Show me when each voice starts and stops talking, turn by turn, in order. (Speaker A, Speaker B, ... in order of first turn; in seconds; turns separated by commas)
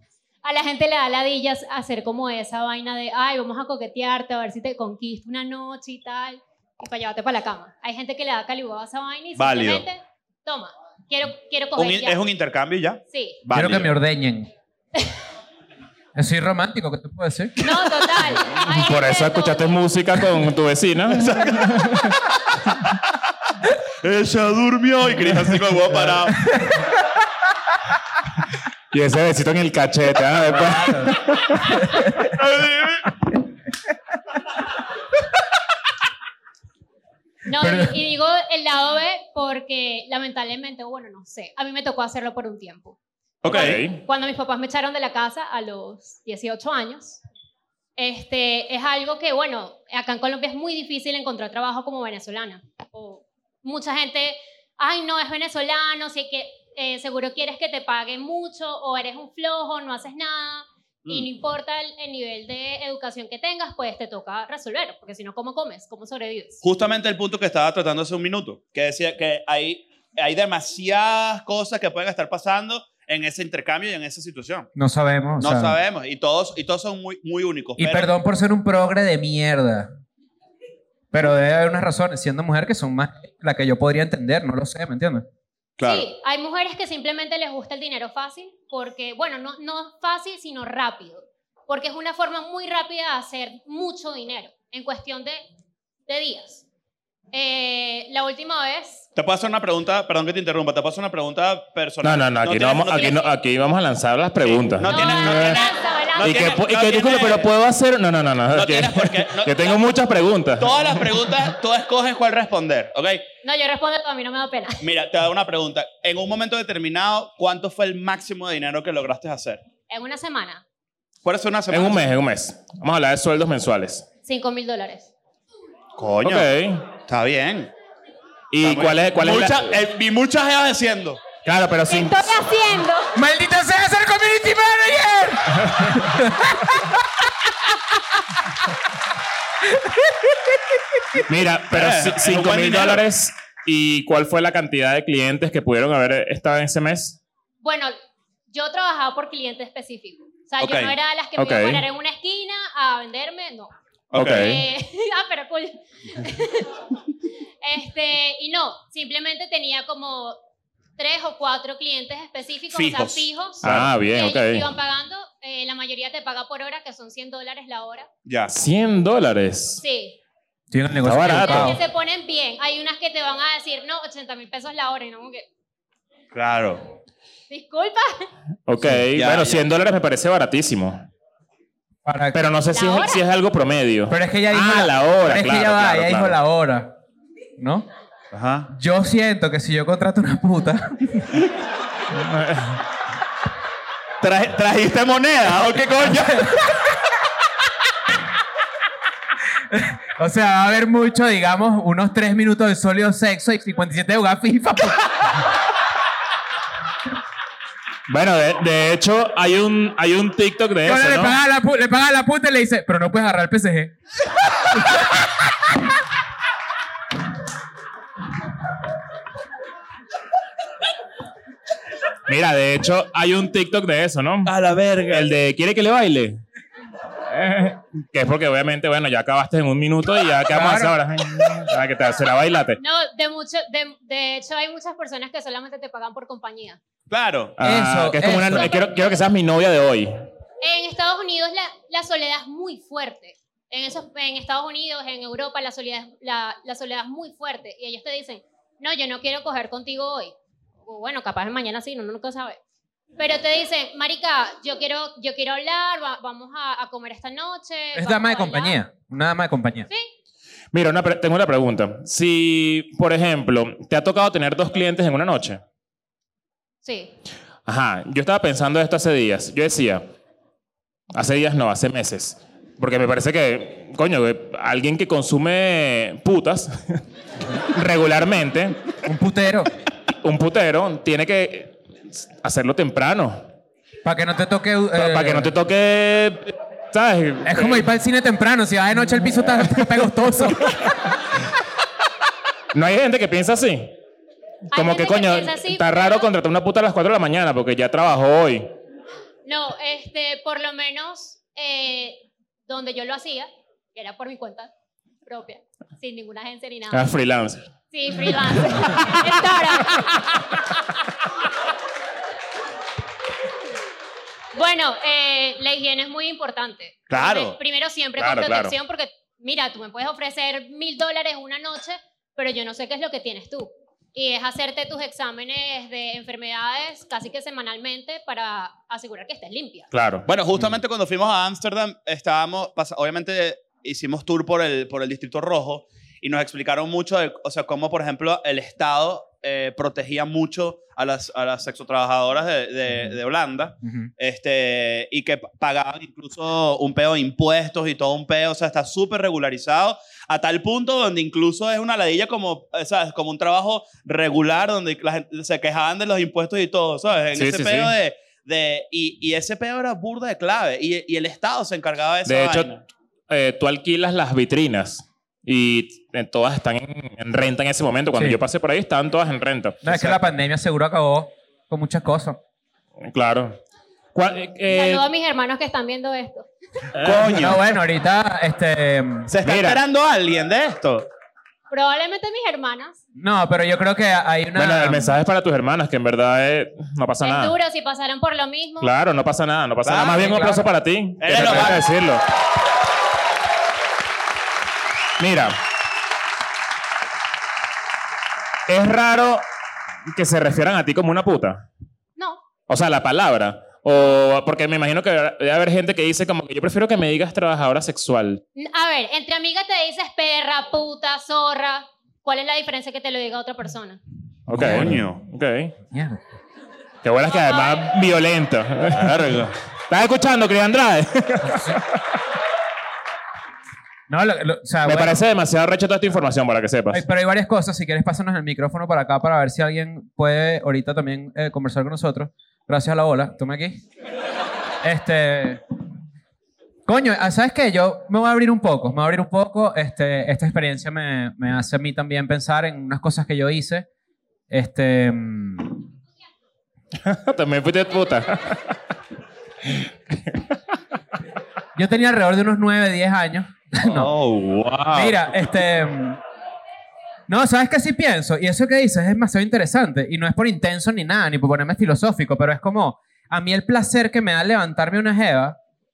Speaker A: 0.4-12.2, Speaker B: 9.4-9.8, Speaker B: 11.8-13.9, Speaker A: 13.1-13.4, Speaker C: 13.5-14.5, Speaker C: 16.1-17.6, Speaker A: 17.6-19.8, Speaker D: 18.6-22.1, Speaker B: 21.2-21.9, Speaker B: 24.0-26.4, Speaker C: 26.4-26.9, Speaker D: 28.9-31.7, Speaker C: 30.5-31.2, Speaker C: 31.7-32.3, Speaker B: 32.2-33.1, Speaker A: 37.5-47.2, Speaker C: 37.6-38.0, Speaker B: 43.4-43.8, Speaker D: 43.5-44.0, Speaker A: 48.0-66.6, Speaker B: 66.6-74.7, Speaker C: 74.8-75.8, Speaker B: 75.4-78.1, Speaker C: 77.8-79.9, Speaker C: 81.1-85.3, Speaker B: 85.8-86.1, Speaker A: 85.8-95.4, Speaker A: 96.1-96.6, Speaker A: 97.3-99.0, Speaker B: 99.2-103.2, Speaker D: 102.0-105.6, Speaker B: 104.4-107.5, Speaker A: 104.9-106.5, Speaker D: 106.2-111.3, Speaker B: 108.5-109.8, Speaker B: 110.6-113.2, Speaker A: 113.4-114.8, Speaker B: 114.8-119.6, Speaker A: 119.9-120.6, Speaker B: 121.2-122.1, Speaker D: 121.7-124.1, Speaker A: 124.2-125.1, Speaker B: 126.0-126.5, Speaker D: 126.2-126.9, Speaker B: 127.1-127.7, Speaker D: 128.5-129.8, Speaker B: 128.6-131.2, Speaker D: 131.4-132.5, Speaker A: 131.9-133.2, Speaker C: 133.2-137.0, Speaker D: 135.6-136.1, Speaker C: 139.7-141.2, Speaker D: 141.2-147.2, Speaker B: 141.7-143.0, Speaker A: 147.6-147.9, Speaker A: 148.5-156.7, Speaker B: 150.6-150.9, Speaker D: 151.4-151.8, Speaker B: 154.1-154.5, Speaker D: 154.1-154.6, Speaker A: 157.6-160.4, Speaker A: 161.0-168.1, Speaker B: 162.7-163.9, Speaker D: 163.6-164.7, Speaker B: 168.3-168.5, Speaker D: 168.5-169.8, Speaker A: 169.8-170.2, Speaker C: 170.7-171.8, Speaker D: 171.0-171.8, Speaker A: 171.3-175.5, Speaker B: 176.3-176.8, Speaker A: 177.5-178.3, Speaker D: 178.7-181.0, Speaker B: 179.2-179.7, Speaker C: 182.1-182.4, Speaker D: 182.3-186.4, Speaker A: 182.7-183.2, Speaker C: 184.1-187.0, Speaker C: 187.6-187.9, Speaker B: 188.3-188.7, Speaker C: 188.7-191.4, Speaker D: 192.1-192.8, Speaker B: 194.2-196.5, Speaker C: 196.2-196.8, Speaker C: 199.7-205.4, Speaker D: 208.1-211.3, Speaker C: 210.8-213.9, Speaker D: 222.3-224.5, Speaker B: 224.4-225.3, Speaker D: 225.1-226.4, Speaker D: 227.3-232.8, Speaker C: 230.5-231.0, Speaker A: 232.8-236.8, Speaker B: 237.1-237.6, Speaker D: 237.6-240.1, Speaker C: 237.6-238.7, Speaker A: 240.6-252.6, Speaker A: 253.2-258.8, Speaker C: 257.9-259.9, Speaker D: 260.7-265.6, Speaker A: 266.8-267.1, Speaker D: 267.7-270.0, Speaker D: 271.1-277.0, Speaker D: 277.6-278.8, Speaker C: 279.1-279.7, Speaker D: 280.2-281.8, Speaker D: 282.4-283.4, Speaker C: 284.1-285.5, Speaker D: 284.9-287.9, Speaker C: 287.4-290.9, Speaker D: 289.3-291.0, Speaker D: 292.7-294.0, Speaker A: 294.7-296.3, Speaker D: 294.7-298.7, Speaker A: 299.4-304.7, Speaker A: 305.3-307.1, Speaker D: 306.9-307.7, Speaker A: 307.9-310.6, Speaker D: 308.6-309.1, Speaker A: 314.5-329.9, Speaker B: 317.1-317.6, Speaker D: 318.2-318.8, Speaker D: 329.9-330.3, Speaker B: 330.3-362.8, Speaker C: 342.9-343.2, Speaker C: 343.8-344.1, Speaker D: 357.4-357.9, Speaker D: 362.3-362.7, Speaker D: 363.3-369.8, Speaker C: 368.1-368.4, Speaker C: 369.8-372.4, Speaker B: 369.9-370.2, Speaker D: 373.0-373.6, Speaker D: 374.1-375.1, Speaker A: 374.7-376.5, Speaker D: 377.0-377.5, Speaker B: 377.0-377.6, Speaker C: 377.4-379.3, Speaker B: 379.3-381.1, Speaker D: 379.4-379.8, Speaker A: 381.7-383.0, Speaker C: 383.2-385.2, Speaker D: 384.6-387.5, Speaker A: 387.2-388.9, Speaker D: 388.8-392.2, Speaker B: 389.9-390.3, Speaker C: 390.2-390.7, Speaker B: 391.2-391.8, Speaker D: 395.2-395.6, Speaker D: 398.7-399.4, Speaker D: 400.1-401.6, Speaker A: 402.2-402.4, Speaker D: 402.7-408.4, Speaker A: 408.6-414.0, Speaker B: 414.5-415.2, Speaker D: 414.5-415.7, Speaker C: 414.6-415.0, Speaker C: 415.9-416.2, Speaker D: 417.0-419.3, Speaker A: 417.3-417.9, Speaker B: 418.9-419.6, Speaker D: 419.9-421.9, Speaker C: 424.1-425.2, Speaker D: 424.9-427.0, Speaker C: 426.9-433.8, Speaker C: 434.8-435.6, Speaker C: 436.9-443.9, Speaker C: 444.5-445.8, Speaker D: 447.0-448.7, Speaker D: 449.7-450.4, Speaker C: 451.8-454.1, Speaker B: 453.8-455.3, Speaker C: 454.9-456.2, Speaker C: 457.3-465.6